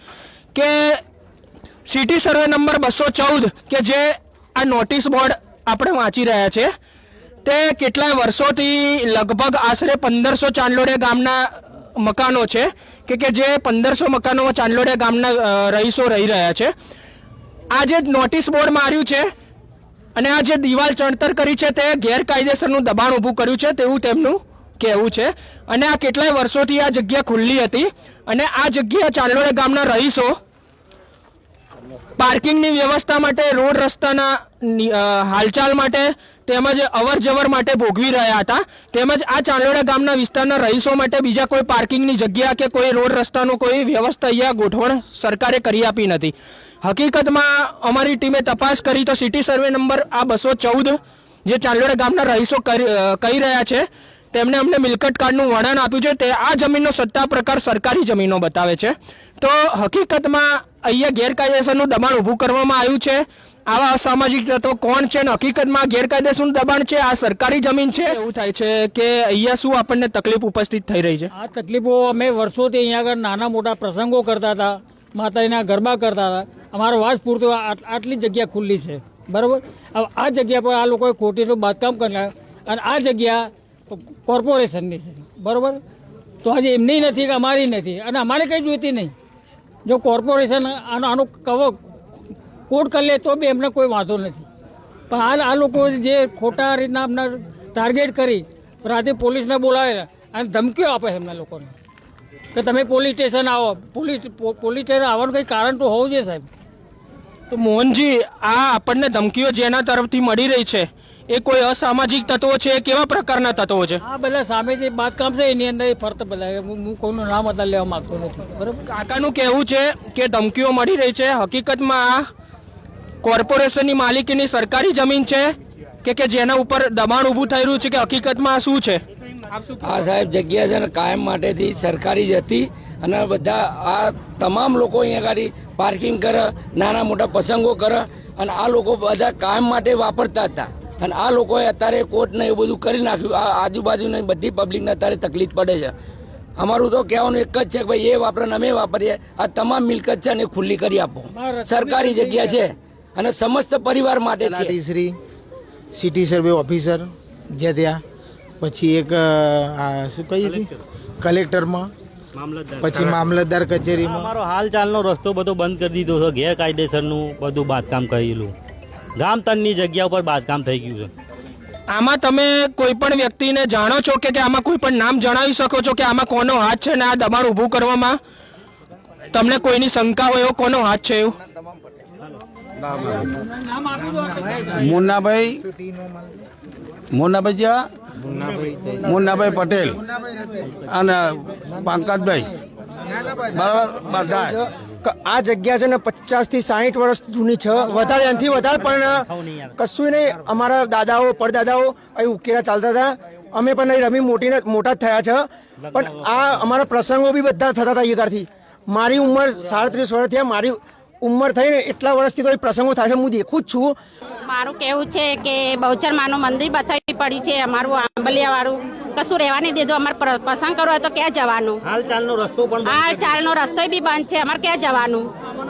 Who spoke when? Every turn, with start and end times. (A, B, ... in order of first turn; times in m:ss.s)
0:00.5-0:01.0 A
0:01.9-0:06.7 A
0:07.4-0:16.7 A
0:17.7-0:19.3 A
0:20.2-0:30.4 A
0:32.2-1:11.3 A
1:11.3-1:25.8 B
1:26.4-1:29.1 B
1:29.8-1:31.8 B
1:32.7-1:34.4 B
1:35.1-1:41.7 B
1:42.5-1:46.5 B
1:47.5-1:54.0 A
1:54.0-1:58.8 B
1:58.9-2:02.2 A
2:03.2-2:09.0 A
2:09.8-2:25.9 C
2:26.6-2:34.7 C
2:31.3-2:32.6 B
2:34.4-2:35.2 D
2:35.9-2:38.0 D
2:38.6-2:41.9 D
2:40.4-2:40.7 E
2:42.4-2:43.2 E
2:42.8-2:44.3 D
2:44.0-2:48.5 E
2:49.2-2:51.1 E
2:51.9-2:58.2 A
2:59.3-3:01.4 A
3:02.9-3:03.2 F
3:04.6-3:05.6 F
3:07.1-3:07.9 F
3:08.9-3:10.0 F
3:10.9-3:12.5 F
3:13.4-3:14.5 F
3:14.1-3:34.0 G
3:34.5-3:41.8 H
3:41.8-3:43.5 E
3:42.8-3:45.3 H